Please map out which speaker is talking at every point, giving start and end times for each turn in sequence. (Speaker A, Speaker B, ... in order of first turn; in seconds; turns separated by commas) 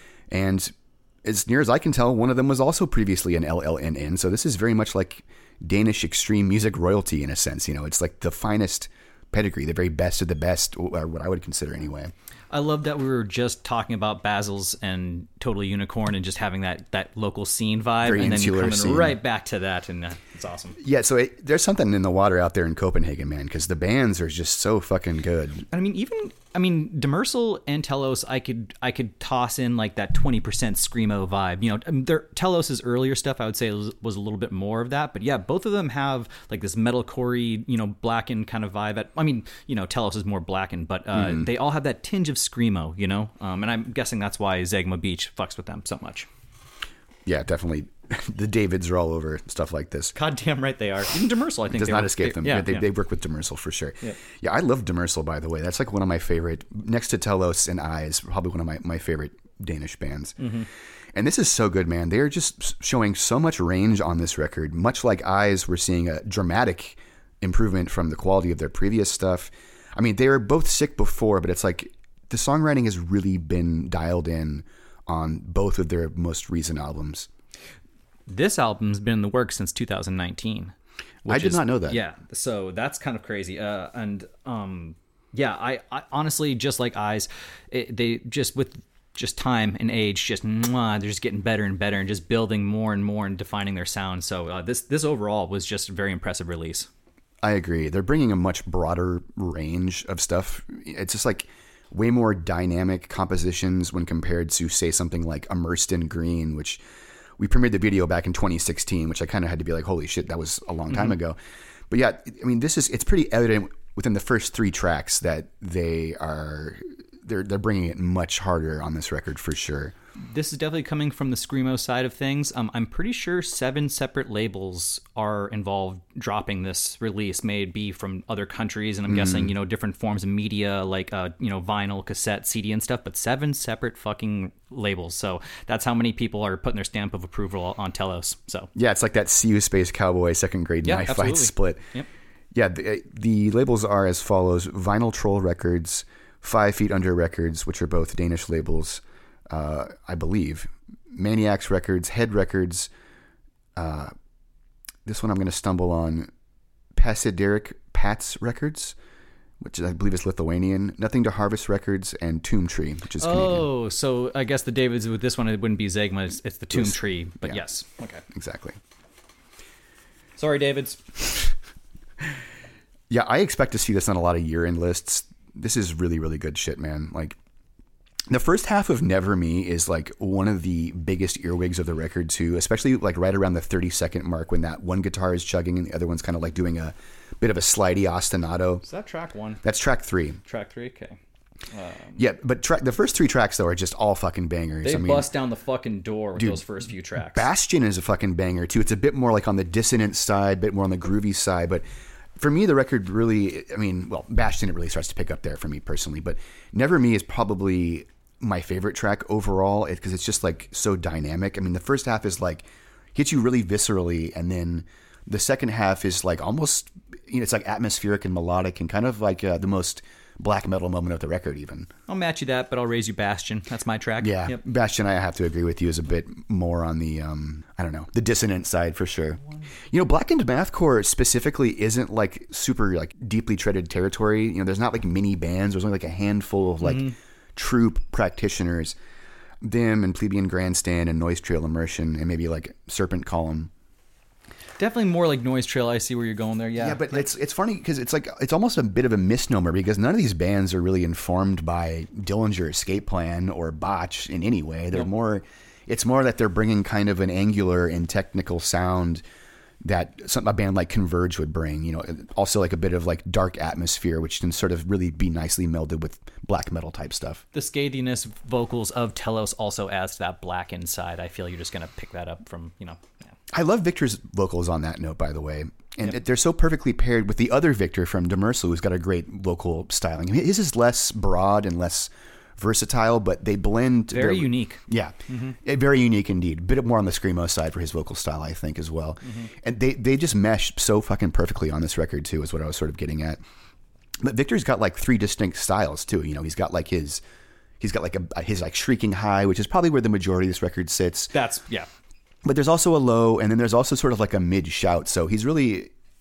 Speaker A: 0.3-12.1, Speaker B: 12.5-20.8, Speaker A: 18.0-19.2, Speaker A: 20.8-25.7, Speaker B: 25.7-46.3, Speaker A: 41.1-41.5, Speaker A: 47.3-50.1, Speaker B: 50.1-52.9, Speaker A: 51.7-60.4, Speaker B: 60.4-60.7, Speaker A: 61.1-77.3, Speaker B: 78.3-80.7, Speaker B: 81.2-96.9, Speaker A: 81.3-82.0, Speaker A: 97.4-106.8, Speaker A: 107.4-111.4, Speaker A: 111.9-120.0, Speaker B: 120.2-138.7, Speaker A: 129.1-129.5, Speaker A: 138.8-141.8, Speaker B: 140.8-142.1, Speaker A: 142.5-152.9, Speaker A: 153.8-154.1, Speaker A: 155.1-156.3, Speaker A: 156.9-159.0, Speaker A: 159.6-163.7, Speaker B: 163.2-168.2, Speaker A: 166.7-167.7, Speaker A: 168.3-168.8, Speaker B: 170.4-171.5, Speaker A: 173.1-177.4, Speaker A: 178.3-188.8, Speaker B: 188.8-189.6, Speaker A: 189.6-190.4, Speaker B: 190.4-191.2, Speaker B: 191.7-192.2, Speaker A: 192.2-195.3, Speaker B: 194.8-197.5, Speaker A: 196.4-201.8, Speaker A: 202.4-221.9, Speaker B: 222.1-224.6, Speaker A: 224.2-239.0, Speaker B: 236.8-237.2, Speaker A: 239.6-243.7, Speaker B: 244.8-247.3, Speaker A: 246.8-259.2, Speaker A: 259.8-267.4, Speaker B: 267.5-273.2, Speaker A: 273.5-293.4, Speaker B: 284.1-285.6, Speaker B: 289.2-289.5, Speaker A: 294.2-297.2, Speaker A: 297.8-301.3, Speaker B: 301.3-301.9, Speaker A: 302.4-305.9